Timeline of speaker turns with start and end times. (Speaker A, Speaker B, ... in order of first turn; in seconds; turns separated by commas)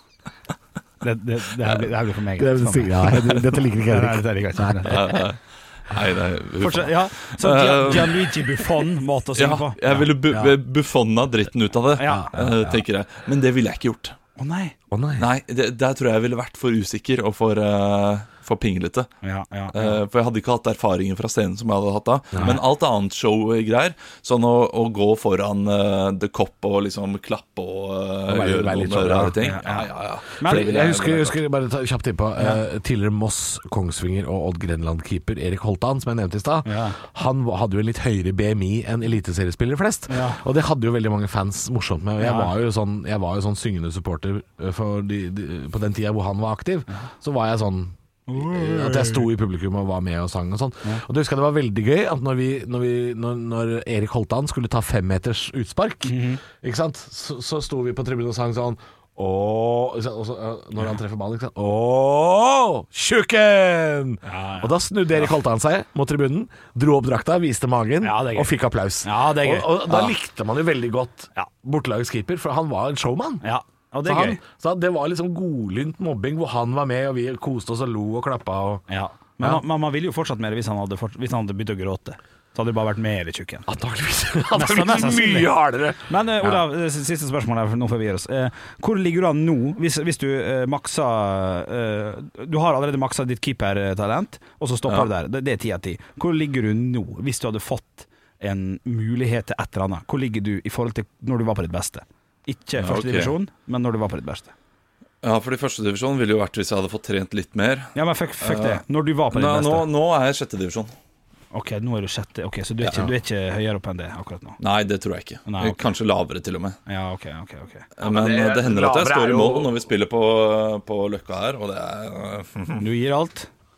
Speaker A: 1.0-3.3, Speaker B: 2.4-5.2, Speaker A: 3.9-5.0, Speaker C: 4.9-8.3, Speaker A: 6.6-10.5, Speaker C: 9.4-14.2, Speaker A: 12.0-12.3, Speaker B: 12.1-12.8, Speaker A: 14.4-14.8, Speaker B: 14.9-15.3, Speaker C: 15.2-19.1, Speaker A: 19.2-20.0, Speaker C: 19.7-31.4, Speaker B: 22.3-22.6, Speaker B: 28.3-29.4, Speaker A: 29.4-30.7, Speaker B: 30.4-73.4, Speaker A: 36.6-37.0, Speaker A: 40.1-40.4, Speaker A: 42.2-42.5, Speaker A: 48.3-49.3, Speaker A: 56.1-56.4, Speaker A: 64.2-65.3, Speaker A: 68.0-70.2, Speaker A: 73.4-74.4, Speaker B: 74.1-78.8, Speaker A: 78.9-83.7, Speaker B: 83.7-86.6, Speaker A: 84.5-85.5, Speaker A: 86.1-104.5, Speaker C: 102.8-103.3, Speaker C: 105.2-110.9, Speaker A: 108.0-109.9, Speaker A: 111.5-114.6, Speaker C: 114.6-116.8, Speaker A: 115.5-115.8, Speaker A: 116.9-117.9, Speaker C: 118.0-122.8, Speaker B: 118.0-119.7, Speaker A: 122.8-123.5